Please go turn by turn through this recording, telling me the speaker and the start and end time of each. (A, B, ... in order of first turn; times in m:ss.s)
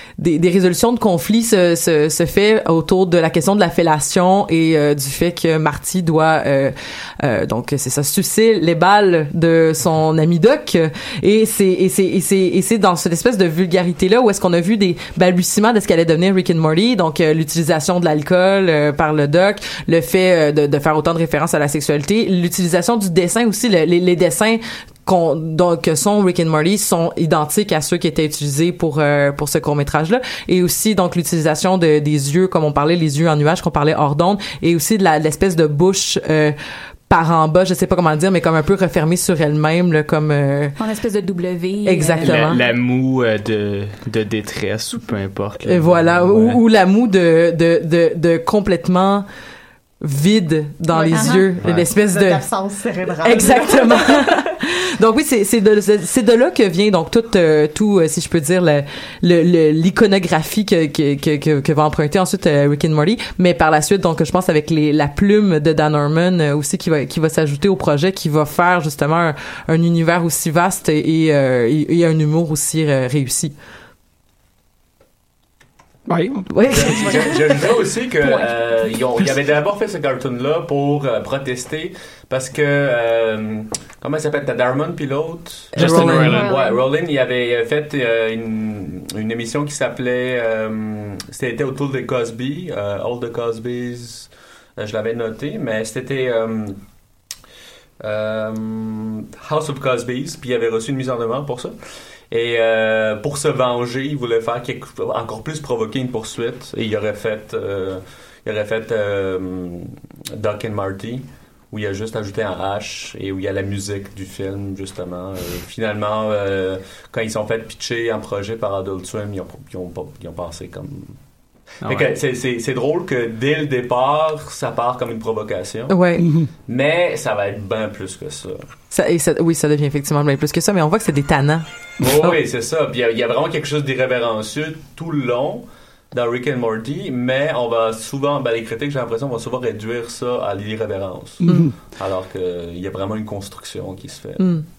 0:00.2-0:36.6 A
0:37.1-0:40.8 A
0:40.8-0:42.5 B
0:41.8-0:42.6 A
0:42.2-0:46.6 C
0:45.6-0:49.2 A
0:50.0-0:52.5 A
0:50.9-0:54.4 D
0:51.1-0:51.4 B
0:51.6-0:51.9 E
0:53.2-1:13.5 A
1:16.1-1:17.2 F
1:16.5-1:17.6 A
1:16.7-1:36.8 E
1:25.8-1:26.5 F
1:25.8-1:26.5 C
1:25.8-1:26.4 A
1:26.4-1:26.8 B
1:38.0-1:41.7 E
1:42.3-2:01.2 E
2:01.8-2:02.1 C
2:01.8-2:06.0 E
2:05.9-2:06.3 A
2:06.2-2:06.5 F
2:06.7-2:08.6 E
2:08.9-2:12.4 A
2:12.0-2:24.6 E
2:21.4-2:21.7 F
2:24.4-2:24.6 A